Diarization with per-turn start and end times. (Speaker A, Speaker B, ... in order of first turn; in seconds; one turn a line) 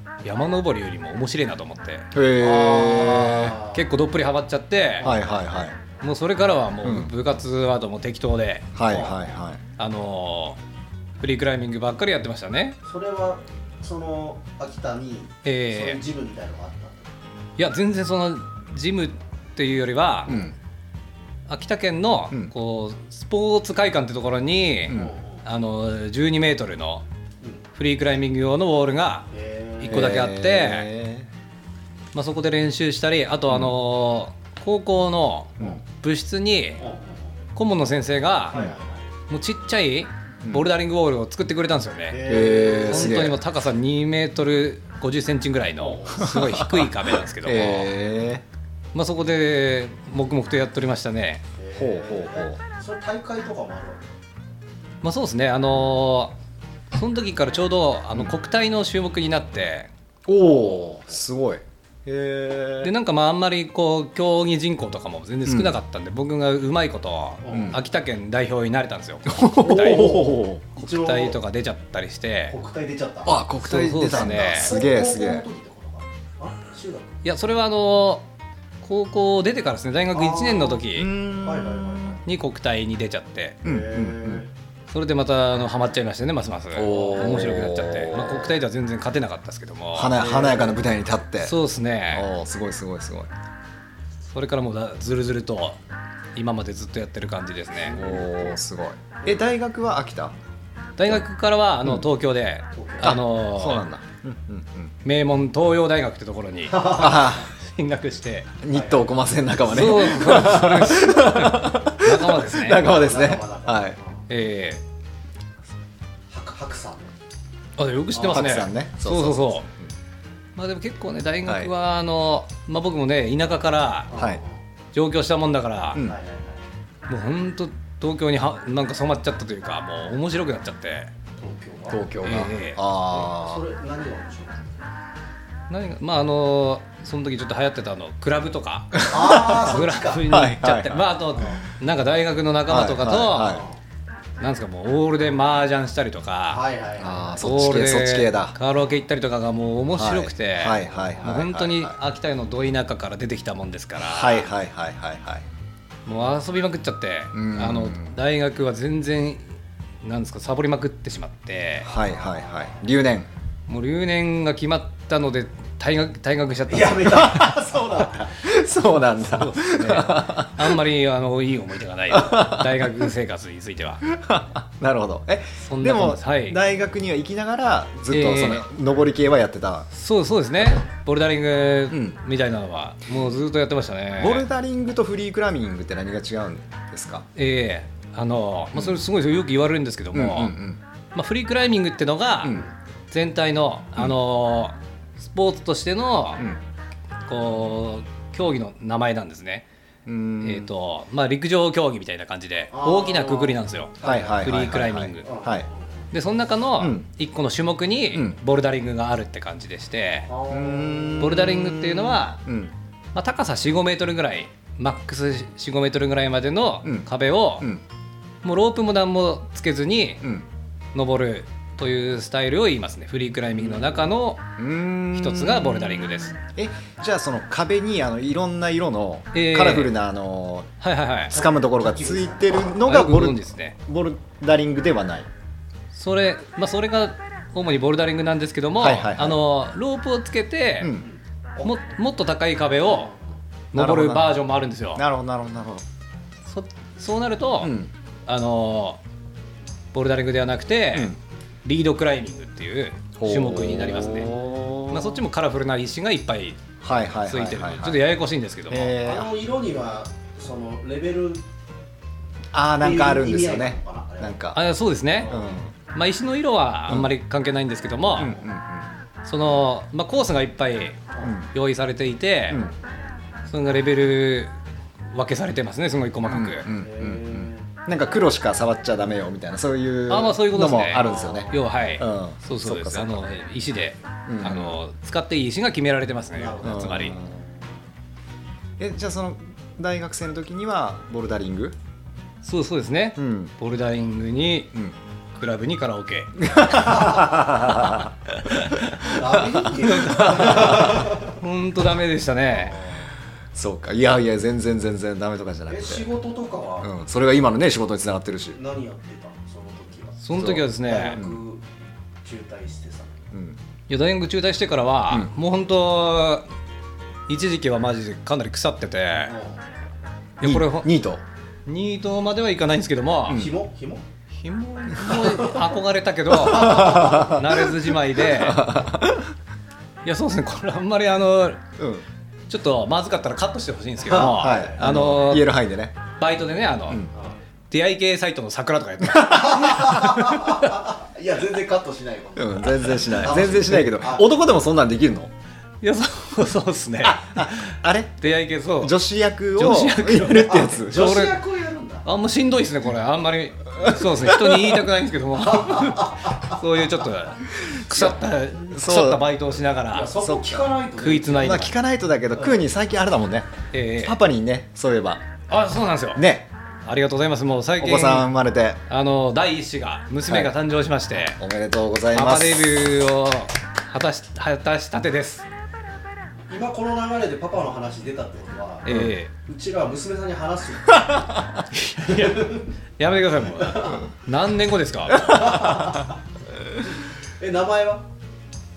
Speaker A: 0.2-2.1
Speaker B: 2.1-3.6
Speaker C: 2.4-3.9
Speaker A: 3.6-5.1
Speaker C: 5.0-5.3
Speaker B: 5.0-5.8
Speaker A: 6.0-8.7
Speaker B: 6.8-7.1
Speaker B: 8.8-9.6
Speaker C: 8.9-9.3
Speaker A: 9.8-10.6
Speaker A: 11.2-12.8
Speaker C: 12.9-17.1
Speaker A: 15.4-16.0
Speaker A: 17.6-20.5
Speaker B: 20.3-20.5
Speaker A: 21.5-27.1
Speaker B: 24.9-25.1
Speaker C: 24.9-25.4
Speaker A: 27.8-29.3
Speaker C: 29.3-30.1
Speaker A: 29.8-30.9
Speaker B: 29.9-31.3
Speaker A: 32.1-36.8
Speaker C: 36.8-37.3
Speaker A: 37.5-38.6
Speaker C: 38.5-39.0
Speaker A: 39.3-47.9
Speaker C: 42.1-43.3
Speaker B: 42.2-43.4
Speaker C: 45.8-46.3
Speaker B: 46.2-48.5
Speaker A: 48.9-51.4
Speaker C: 51.6-54.0
Speaker B: 51.8-52.6
Speaker A: 55.0-56.4
Speaker A: 56.9-59.9
Speaker B: 60.3-62.9
Speaker C: 60.4-61.0
Speaker A: 62.8-72.6
Speaker B: 65.5-65.8
Speaker C: 67.4-67.8
Speaker B: 67.5-67.8
Speaker B: 69.3-70.6
Speaker C: 69.6-71.4
Speaker C: 72.5-73.4
Speaker B: 73.2-75.5
Speaker A: 73.6-74.7
Speaker C: 74.5-77.2
Speaker A: 77.2-78.2
Speaker A: 78.8-81.1
Speaker C: 80.1-82.2
Speaker B: 80.9-82.2
Speaker A: 82.2-83.6
Speaker B: 83.6-84.4
Speaker C: 83.6-84.5
Speaker A: 84.9-90.2
Speaker B: 86.8-88.5
Speaker C: 86.9-87.4
Speaker B: 90.0-91.5
Speaker C: 90.1-90.9
Speaker A: 91.4-92.3
Speaker B: 92.1-93.3
Speaker A: 94.3-95.8
Speaker A: 96.3-98.0
Speaker C: 97.8-98.6
Speaker B: 97.9-100.3
Speaker A: 101.0-103.8
Speaker C: 102.8-103.2
Speaker B: 103.0-104.9
Speaker A: 105.0-108.5
Speaker C: 106.7-107.4
Speaker B: 106.9-107.5
Speaker B: 108.6-114.0
Speaker C: 108.7-109.1
Speaker A: 109.7-112.8
Speaker C: 112.8-114.2
Speaker A: 114.3-114.8
Speaker C: 116.3-117.1
Speaker A: 117.8-119.7
Speaker B: 118.2-119.9
Speaker A: 120.6-124.1
Speaker C: 124.1-124.5
Speaker B: 124.1-124.4
Speaker A: 124.9-126.0
Speaker C: 126.0-126.6
Speaker A: 127.1-131.1
Speaker C: 131.4-132.0
Speaker B: 131.9-133.6
Speaker A: 132.2-132.8
Speaker C: 133.1-134.9
Speaker A: 135.7-143.6
Speaker C: 139.1-140.3
Speaker B: 139.1-139.6
Speaker B: 140.3-141.1
Speaker B: 142.7-143.6
Speaker C: 143.4-143.8
Speaker A: 144.4-146.6
Speaker C: 146.5-147.5
Speaker B: 147.0-148.5
Speaker A: 147.4-154.5
Speaker B: 149.9-152.0
Speaker B: 154.0-155.4
Speaker A: 156.1-161.9
Speaker B: 157.3-158.2
Speaker B: 161.8-163.3
Speaker C: 161.9-162.8
Speaker A: 163.7-167.5
Speaker C: 166.7-168.2
Speaker B: 167.1-170.8
Speaker A: 169.2-174.0
Speaker B: 172.1-173.1
Speaker B: 174.1-179.9
Speaker A: 175.6-176.6
Speaker A: 178.1-178.7
Speaker A: 179.9-184.5
Speaker B: 181.9-182.2
Speaker B: 184.2-187.3
Speaker A: 187.4-190.6
Speaker B: 188.7-189.0
Speaker B: 190.1-190.8
Speaker A: 191.2-196.5
Speaker A: 197.2-199.7
Speaker B: 200.1-200.7
Speaker A: 200.4-205.3
Speaker C: 202.7-204.4
Speaker B: 204.0-205.7
Speaker C: 205.2-205.8
Speaker A: 206.1-210.3
Speaker B: 206.8-207.1
Speaker B: 208.1-208.4
Speaker C: 210.3-211.3
Speaker B: 210.5-212.7
Speaker A: 211.2-212.4
Speaker A: 213.2-217.7
Speaker A: 218.4-220.2
Speaker A: 220.9-224.5
Speaker B: 224.6-230.7
Speaker A: 225.2-226.4
Speaker A: 229.3-229.9
Speaker A: 230.8-231.4
Speaker B: 231.3-235.3
Speaker C: 231.3-232.8
Speaker A: 232.8-233.8
Speaker A: 235.9-240.9
Speaker B: 238.8-239.4
Speaker B: 240.8-241.1
Speaker C: 241.0-241.7
Speaker A: 241.6-243.1
Speaker C: 242.9-243.2
Speaker A: 243.7-245.0
Speaker B: 243.7-244.3
Speaker B: 244.9-245.8
Speaker A: 246.5-247.8
Speaker B: 247.6-247.9
Speaker A: 248.3-249.0
Speaker A: 249.9-256.6
Speaker B: 253.2-255.2
Speaker B: 256.8-258.0
Speaker A: 257.3-258.9
Speaker B: 258.7-259.3
Speaker C: 259.0-261.4
Speaker B: 262.5-264.6
Speaker C: 262.8-264.4
Speaker A: 264.6-265.3
Speaker C: 265.1-265.6
Speaker B: 265.3-265.7
Speaker A: 265.9-268.3
Speaker B: 268.2-268.9
Speaker A: 269.2-272.7
Speaker C: 271.1-271.4
Speaker B: 271.2-271.5
Speaker A: 273.5-274.5
Speaker A: 275.1-276.7
Speaker B: 276.3-283.3
Speaker C: 276.7-277.7
Speaker A: 280.1-287.2
Speaker C: 280.9-281.6
Speaker B: 284.3-284.8
Speaker C: 286.3-287.6
Speaker B: 286.6-287.3
Speaker B: 288.8-291.8
Speaker A: 292.4-294.8
Speaker B: 293.2-293.5
Speaker A: 295.4-296.8
Speaker B: 296.4-298.1
Speaker C: 296.7-297.4
Speaker A: 298.3-299.2
Speaker C: 299.0-301.4
Speaker B: 299.3-300.8
Speaker A: 299.8-302.8
Speaker C: 302.6-303.1
Speaker B: 303.6-306.1
Speaker C: 305.7-306.9
Speaker B: 306.8-308.6
Speaker C: 308.6-310.2
Speaker A: 310.2-311.2
Speaker B: 310.4-311.4
Speaker C: 310.8-311.6
Speaker C: 312.2-313.2
Speaker B: 313.3-313.6
Speaker A: 313.9-316.5
Speaker A: 317.3-319.4
Speaker C: 319.3-319.6
Speaker A: 320.4-320.9
Speaker B: 320.4-321.2
Speaker A: 321.7-323.5
Speaker B: 323.3-323.5
Speaker C: 323.3-324.0
Speaker A: 324.4-328.8
Speaker B: 326.4-329.3
Speaker C: 326.6-327.3
Speaker A: 330.1-331.6
Speaker B: 331.8-332.1
Speaker A: 332.5-335.6
Speaker C: 334.0-334.9
Speaker B: 334.3-336.0
Speaker A: 336.2-337.1
Speaker A: 337.7-340.8
Speaker B: 339.2-339.9
Speaker C: 339.3-344.3
Speaker B: 342.4-345.3
Speaker A: 345.8-349.0
Speaker B: 347.0-348.2
Speaker B: 348.8-351.1
Speaker A: 349.6-351.4
Speaker C: 350.5-352.1
Speaker A: 352.0-360.1
Speaker B: 353.8-354.9
Speaker C: 355.4-356.6
Speaker B: 357.9-359.2
Speaker C: 359.9-361.7
Speaker B: 360.2-360.7
Speaker A: 361.0-361.7
Speaker B: 361.4-365.2
Speaker C: 362.4-362.6
Speaker A: 363.7-364.2
Speaker A: 365.5-366.3
Speaker B: 366.2-366.5
Speaker A: 366.9-368.3
Speaker B: 367.8-368.8
Speaker A: 368.9-371.4
Speaker B: 370.3-370.6
Speaker B: 371.3-372.8
Speaker A: 372.1-375.5
Speaker C: 376.5-381.2
Speaker A: 378.9-379.3
Speaker B: 381.0-381.5
Speaker A: 381.7-385.7
Speaker C: 382.1-382.7
Speaker C: 383.6-384.1
Speaker C: 385.2-386.2
Speaker C: 386.9-388.1